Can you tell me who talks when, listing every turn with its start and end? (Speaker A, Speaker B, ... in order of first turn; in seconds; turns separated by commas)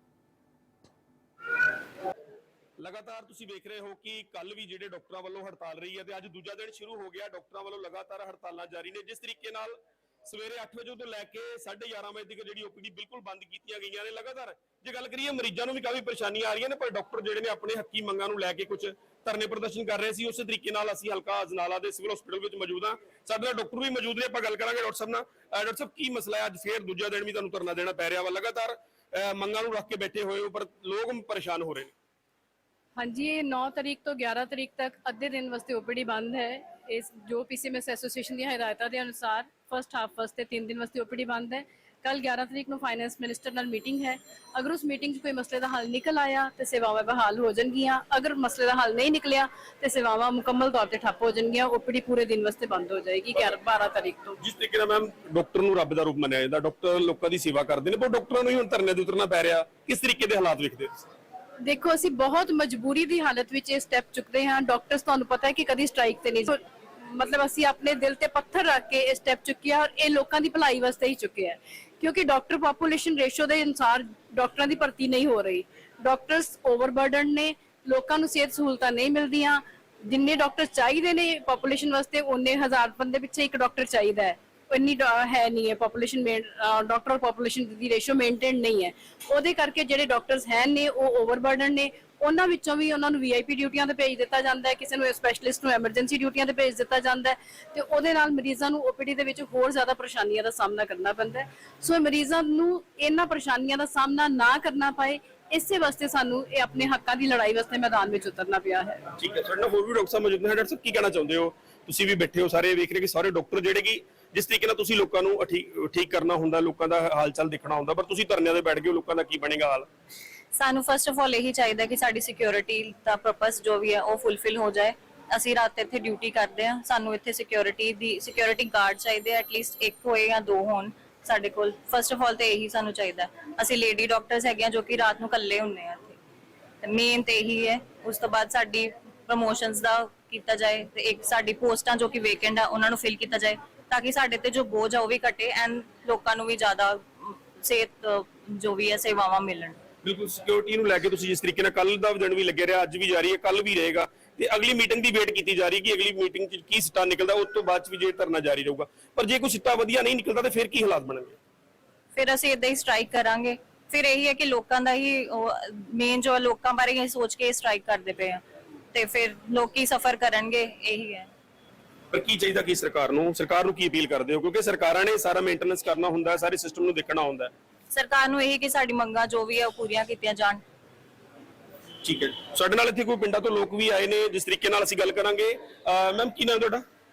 Speaker A: 2.8-31.9, Speaker B: 33.0-54.4, Speaker A: 54.4-61.0, Speaker B: 61.6-109.0, Speaker A: 109.2-119.9, Speaker C: 120.5-136.2, Speaker C: 136.8-149.8, Speaker A: 150.0-161.3, Speaker C: 162.1-171.3, Speaker A: 172.1-177.5, Speaker C: 177.9-180.6, Speaker A: 182.0-186.8